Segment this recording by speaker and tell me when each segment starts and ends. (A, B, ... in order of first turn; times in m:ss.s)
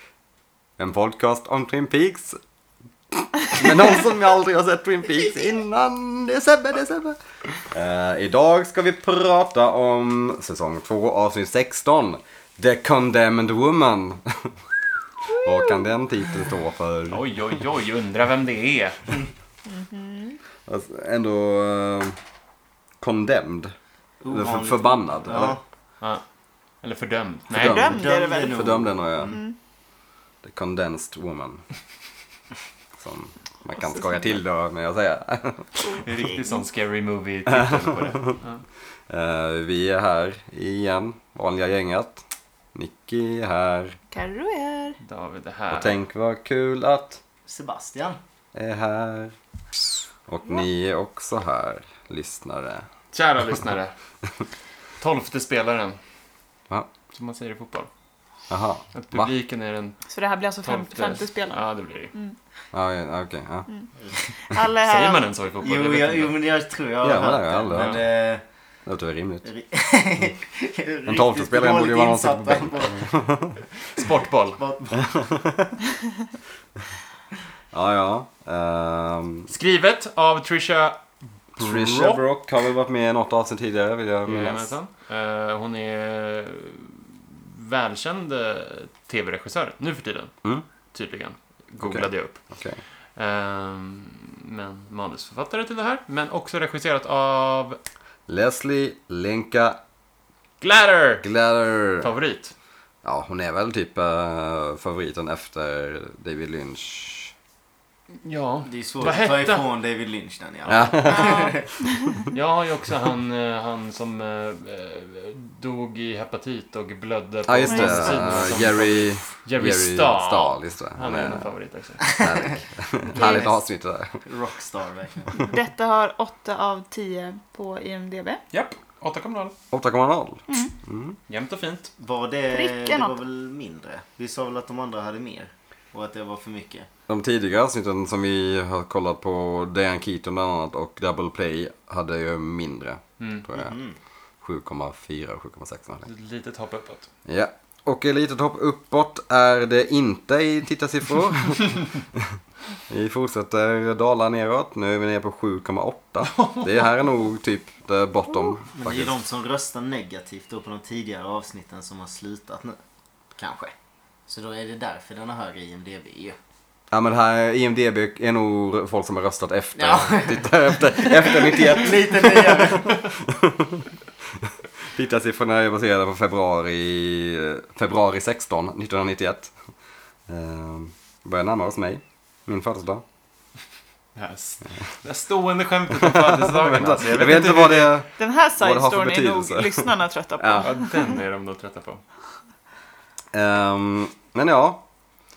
0:00.8-0:02.4 A
0:03.2-0:14.6 A
0:15.2-0:17.2 A
0:17.1-0:19.0 B
0:19.6-0:20.4 C
0:20.7-0:22.2 A
0:23.0-0:23.7 A
0:24.2-0:25.6 D
0:24.3-0:25.6 A
0:26.8-0:27.8 B
0:27.5-0:29.4 A
0:27.6-0:29.6 C
0:27.7-0:29.4 D
0:30.4-0:31.6 A
0:33.0-0:36.0 A
0:33.8-0:34.4 C
0:35.8-0:36.6 C
0:36.0-0:38.6 B
0:37.5-0:38.4 A
0:39.1-0:42.2 A
0:42.8-0:44.0 A
0:44.1-0:45.0 C
0:45.0-0:46.0 B
0:45.7-0:47.2 A
0:47.5-0:48.2 D
0:48.5-0:49.4 A
0:50.3-0:52.9 A
0:53.1-0:53.9 B
0:55.0-0:56.0 B
0:57.1-0:57.9 B
0:58.5-0:59.3 A
0:59.0-1:00.0 B
1:00.1-1:02.4 C
1:00.6-1:02.1 B
1:02.7-1:03.7 A
1:04.5-1:05.4 C
1:04.7-1:06.4 B
1:05.6-1:08.4 D
1:07.0-1:08.0 A
1:07.7-1:08.0 B
1:08.9-1:09.5 A
1:09.4-1:13.1 D
1:11.1-1:13.6 A
1:13.9-1:14.6 B
1:14.6-1:15.0 D
1:15.0-1:15.7 A
1:17.7-1:19.5 A
1:19.5-1:21.0 B
1:21.6-1:22.2 B
1:21.6-1:24.8 A
1:24.3-1:30.4 B
1:30.9-1:32.4 B
1:31.8-1:32.8 A
1:33.2-1:37.8 B
1:38.3-1:39.8 A
1:40.6-1:41.3 B
1:41.2-1:42.1 A
1:42.0-1:42.5 B
1:43.0-1:47.3 A
1:48.2-1:49.7 B
1:48.7-1:51.7 D
1:50.7-1:51.6 A
1:51.1-1:52.2 C
1:52.3-2:02.2 B
1:57.5-2:01.5 A
1:57.7-1:58.3 C
2:02.2-2:04.2 A
2:03.1-2:03.5 D
2:03.2-2:03.5 C
2:04.2-2:05.3 D
2:05.3-2:08.4 C
2:08.5-2:09.6 B
2:09.7-2:11.2 A
2:10.5-2:10.8 C
2:11.3-2:11.9 B
2:12.0-2:16.9 D
2:12.5-2:13.2 C
2:17.1-2:23.7 A
2:23.2-2:23.4 B
2:23.5-2:24.0 D
2:24.4-2:26.1 A
2:26.1-2:27.1 B
2:27.3-2:32.2 A
2:32.9-2:39.1 A
2:36.4-2:36.7 B
2:38.7-2:42.8 D
2:43.4-2:43.7 D
2:44.3-2:46.4 D
2:46.9-2:53.9 A
2:49.8-2:53.0 D
2:54.9-2:59.5 A
3:00.3-3:03.0 A
3:04.2-3:08.0 B
3:06.0-3:10.7 A
3:08.2-3:11.2 C
3:10.6-3:12.0 B
3:13.3-3:14.8 A